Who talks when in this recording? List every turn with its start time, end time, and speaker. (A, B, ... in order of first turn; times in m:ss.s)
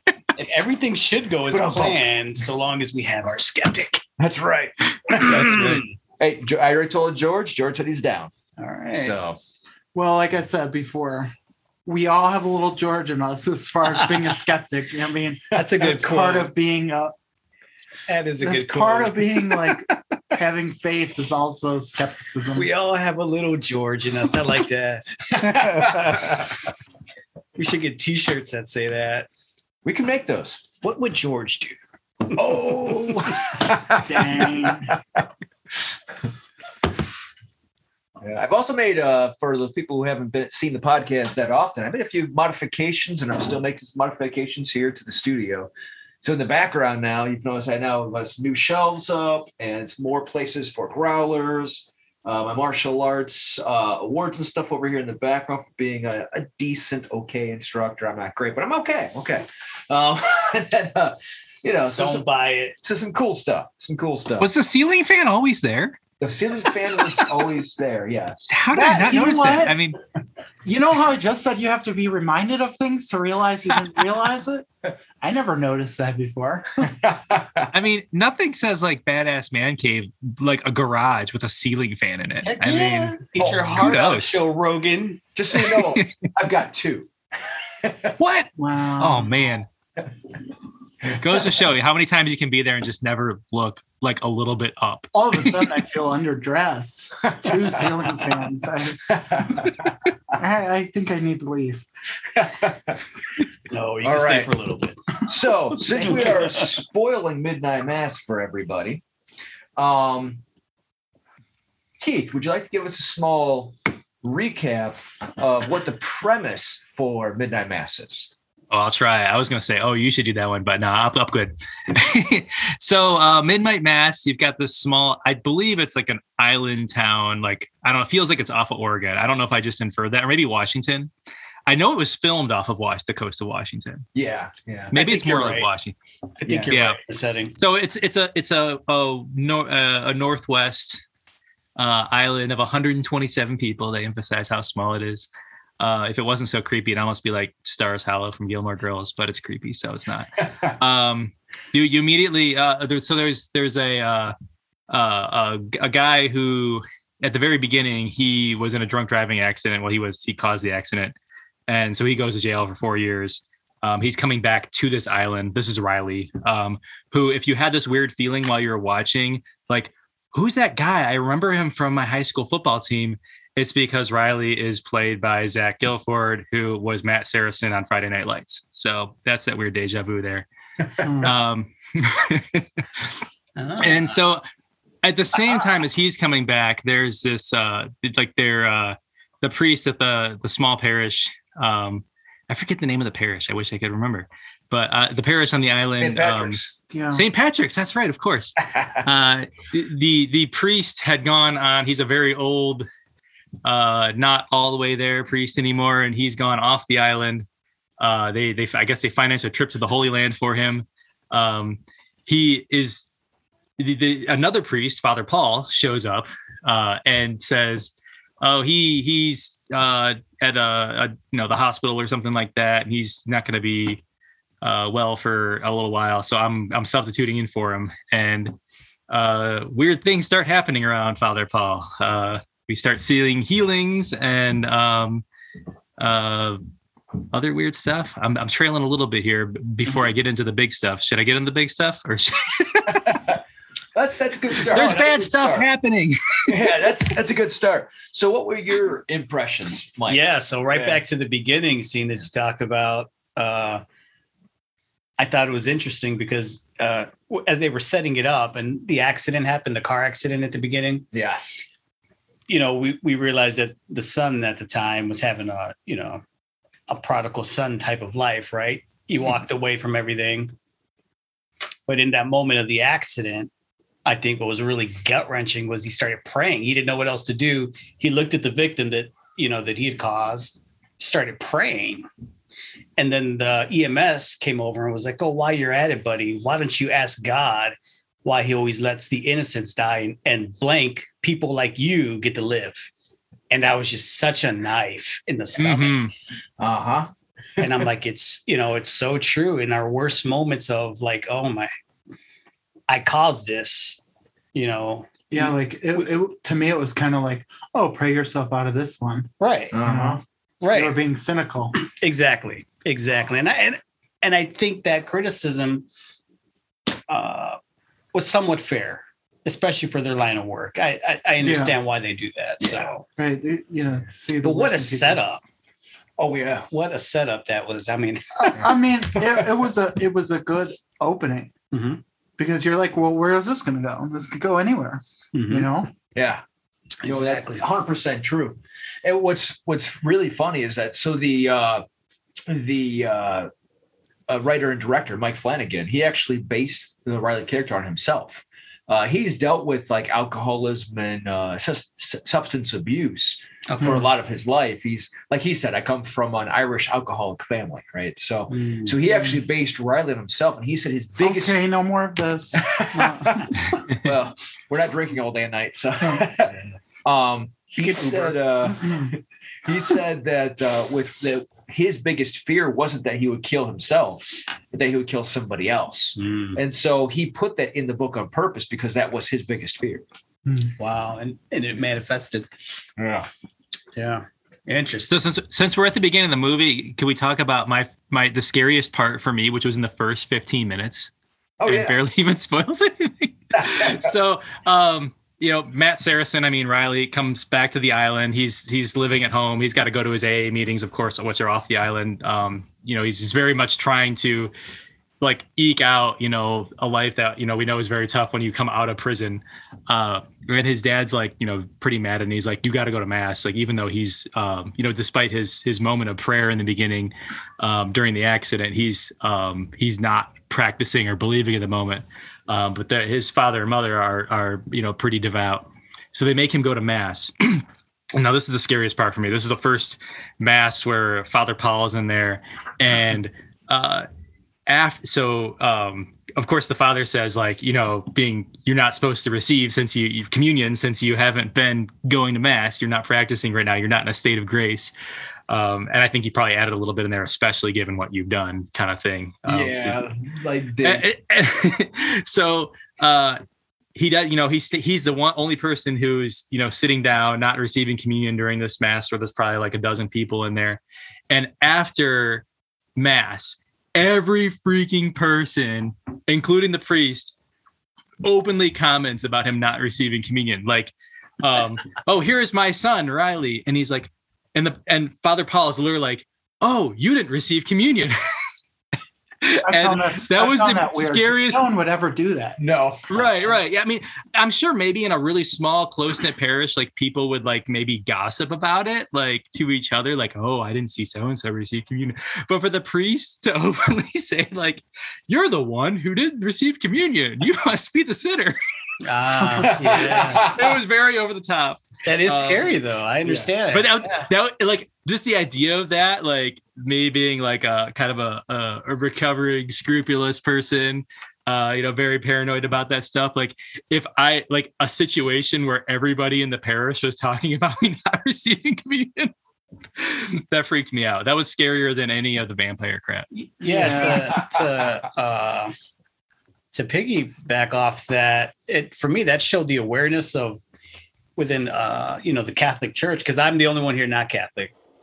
0:00.4-0:04.0 A
0:01.5-0:02.0 B
0:04.2-0:08.3 B
0:05.2-0:05.8 A
0:08.6-0:09.2 A
0:08.9-0:09.4 B
0:09.9-0:11.3 C
0:11.8-0:17.1 C
0:15.5-0:16.5 A
0:18.1-0:19.8 A
0:18.4-0:22.7 C
0:22.5-0:26.5 A
0:25.5-0:26.2 B
0:27.6-0:29.3 A
0:29.8-0:30.7 B
0:30.8-0:31.8 A
0:32.3-0:35.2 B
0:32.4-0:33.2 A
0:34.0-0:34.9 C
0:38.2-0:45.7 B
0:46.2-1:02.3 B
1:01.9-1:02.8 A
1:02.8-1:04.5 B
1:04.4-1:06.0 D
1:06.2-1:08.5 B
1:08.5-1:10.0 D
1:08.7-1:09.7 C
1:10.6-1:14.7 C
1:15.2-1:16.9 C
1:16.8-1:17.7 B
1:17.7-1:24.4 D
1:22.4-1:25.2 A
1:23.3-1:23.8 B
1:25.4-1:27.1 B
1:25.5-1:26.3 D
1:27.7-1:28.1 B
1:28.2-1:29.7 D
1:28.6-1:29.3 C
1:31.1-1:31.4 B
1:31.1-1:35.8 D
1:35.1-1:39.2 C
1:37.3-1:37.9 B
1:39.1-1:39.9 B
1:40.3-1:41.8 C
1:42.3-1:43.0 B
1:43.7-1:45.0 A
1:44.0-1:44.5 B
1:45.2-1:49.0 B
1:45.9-1:46.7 A
1:49.8-1:50.4 B
1:52.0-1:58.3 B
1:58.7-2:11.1 D
2:11.7-2:14.0 D
2:14.1-2:14.9 B
2:14.9-2:16.0 D
2:14.9-2:15.7 A
2:16.4-2:17.5 A
2:16.5-2:16.8 B
2:16.7-2:17.0 D
2:17.6-2:21.0 D
2:21.8-2:25.3 D
2:25.8-2:34.3 D
2:34.9-2:41.2 D
2:41.7-3:00.5 D
3:01.0-3:03.1 D
3:01.0-3:01.3 C
3:03.6-3:04.2 A
3:03.8-3:04.4 D
3:05.0-3:16.6 D
3:16.0-3:16.7 B
3:16.9-3:17.2 C
3:17.1-3:22.9 D
3:18.7-3:19.0 B
3:23.6-3:27.4 D
3:28.0-3:33.0 D
3:33.8-3:44.0 D
3:44.6-3:48.6 D
3:49.1-3:55.2 D
3:56.0-3:56.6 D
3:57.3-4:03.2 D
4:02.9-4:03.4 B
4:03.9-4:05.7 B
4:04.6-4:06.9 D
4:06.5-4:11.0 B
4:10.1-4:13.8 A
4:15.2-4:21.1 A
4:21.1-4:21.6 B
4:22.5-4:26.2 A
4:26.9-4:30.5 A
4:31.9-4:33.5 A
4:34.0-4:42.1 A
4:43.0-4:52.9 A
4:53.5-4:56.1 A
4:55.6-4:56.1 D
4:56.6-4:57.1 B
4:57.6-5:01.7 A
5:02.9-5:04.0 A
5:04.5-5:06.0 A
5:05.3-5:09.3 C
5:09.4-5:09.8 A
5:09.7-5:10.2 B
5:09.8-5:11.7 C
5:10.6-5:11.0 A
5:11.7-5:15.8 A
5:17.1-5:17.6 A
5:18.1-5:23.0 A
5:21.4-5:21.7 C
5:22.6-5:22.9 B
5:23.2-5:25.2 C
5:24.4-5:25.4 A
5:26.2-5:26.7 B
5:26.7-5:28.7 A
5:28.4-5:31.5 C
5:31.7-5:32.0 A
5:32.4-5:35.9 C
5:35.3-5:35.7 A
5:36.1-5:36.4 B
5:37.0-5:37.6 A
5:37.0-5:41.8 B
5:42.4-5:43.5 B
5:44.3-6:01.6 B
5:53.7-5:54.0 A
5:53.8-5:54.1 C
5:58.5-5:59.0 A
6:01.2-6:03.8 C
6:02.6-6:20.0 B
6:07.8-6:08.4 A
6:08.6-6:09.1 C
6:16.2-6:16.6 A
6:20.4-6:20.7 C
6:20.8-6:22.5 A
6:23.0-6:23.3 B
6:24.0-6:25.1 A
6:25.1-6:31.1 D
6:31.6-6:32.0 B
6:31.6-6:44.5 D
6:33.5-6:34.1 B
6:45.2-7:14.1 D
7:14.7-7:24.9 D
7:25.5-7:30.1 D
7:29.4-7:31.0 B
7:30.8-7:33.4 D
7:33.9-7:42.4 D
7:43.0-7:47.3 D
7:48.2-7:58.2 D
7:59.4-8:01.7 D
7:59.6-8:02.6 C
8:02.6-8:03.3 B
8:03.1-8:18.6 D
8:19.0-8:20.5 A
8:19.4-8:20.0 C
8:19.8-8:20.6 B
8:20.0-8:22.8 D
8:22.0-8:23.9 A
8:23.7-8:39.3 D
8:40.0-8:43.3 D
8:43.3-8:45.7 A
8:43.6-8:44.4 C
8:46.7-8:50.6 A
8:51.4-8:54.7 A